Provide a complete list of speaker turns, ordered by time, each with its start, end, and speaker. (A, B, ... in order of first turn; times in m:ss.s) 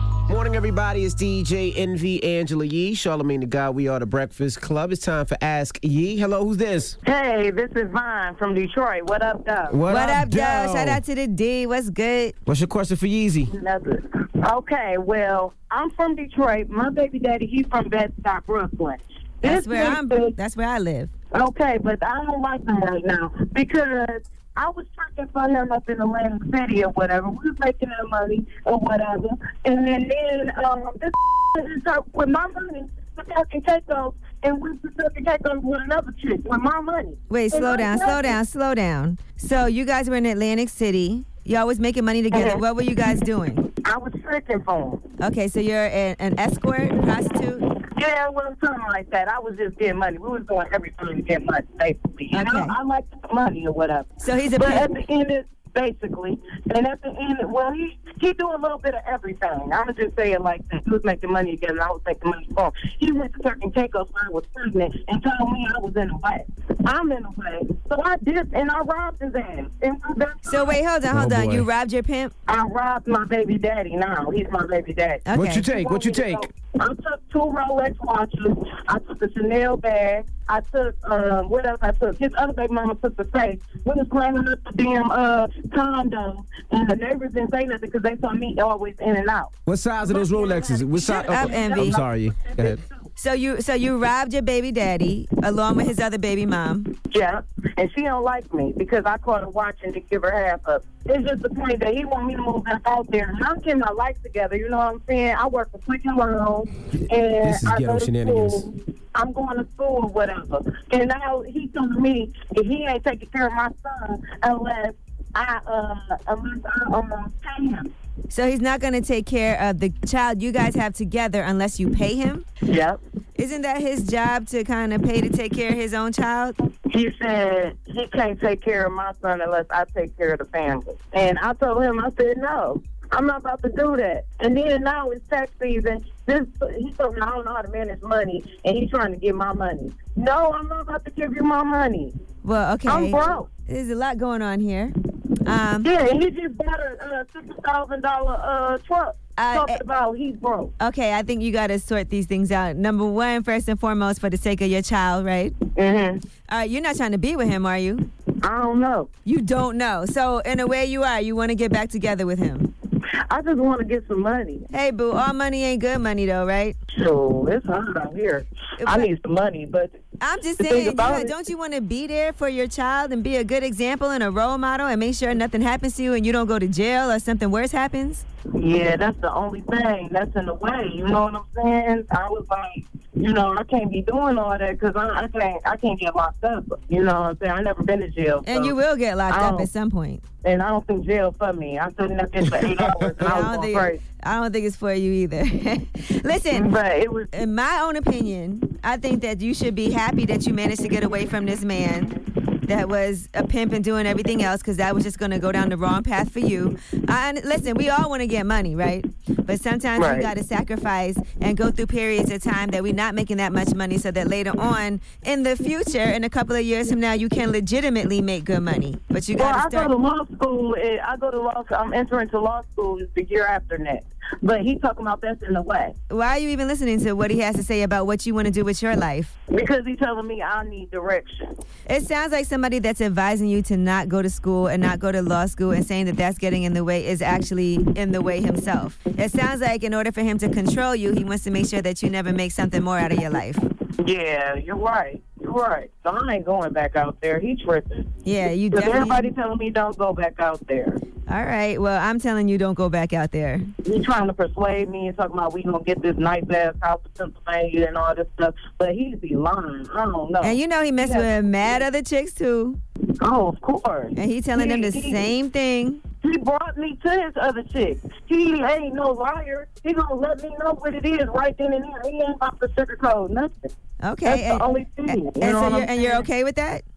0:00.3-0:07.0 A
0:07.0-0:09.8 B
0:09.7-0:11.0 A
0:09.9-0:12.4 C
0:12.5-0:13.5 A
0:13.5-0:20.4 B
0:19.4-0:21.1 C
0:21.3-0:38.4 B
0:37.3-0:43.7 C
0:42.3-0:42.6 B
0:43.8-0:45.0 B
0:45.2-0:47.7 C
0:47.8-1:10.8 B
0:52.3-0:52.7 C
0:54.2-0:54.9 C
1:10.5-1:12.3 C
1:11.1-1:11.7 A
1:12.5-1:29.5 B
1:15.3-1:15.7 C
1:15.3-1:16.5 A
1:29.7-1:32.8 A
1:30.0-1:33.1 B
1:31.0-1:32.0 C
1:33.2-1:36.9 C
1:37.1-1:57.9 B
1:47.4-1:48.6 A
1:58.3-2:02.4 C
2:02.7-2:03.0 B
2:03.4-2:06.6 C
2:06.9-2:22.1 B
2:22.4-2:25.9 C
2:22.9-2:23.5 B
2:25.8-2:30.7 B
2:29.4-2:29.8 C
2:30.8-2:35.6 C
2:35.8-2:36.2 B
2:36.5-2:38.1 C
2:38.4-2:39.1 B
2:39.3-2:42.7 C
2:43.3-2:44.7 B
2:44.7-2:46.8 C
2:46.9-2:50.0 B
2:48.8-2:49.1 C
2:50.2-2:58.2 C
2:50.6-2:51.3 B
2:58.6-3:08.8 B
3:08.4-3:10.2 C
3:09.3-3:09.7 B
3:10.4-3:14.0 B
3:13.2-3:16.7 C
3:16.5-3:17.3 B
3:17.3-3:22.1 C
3:22.7-3:39.9 C
3:30.0-3:30.3 B
3:39.4-3:46.0 B
3:46.1-3:49.3 C
3:49.5-3:51.5 B
3:51.9-4:03.6 C
4:04.0-4:08.1 B
4:08.2-4:09.3 C
4:08.7-4:11.0 B
4:11.3-4:13.7 C
4:13.8-4:21.8 B
4:20.4-4:22.8 C
4:23.2-4:25.3 B
4:24.2-4:26.0 C
4:26.2-4:33.7 B
4:34.0-4:36.8 C
4:34.2-4:36.2 B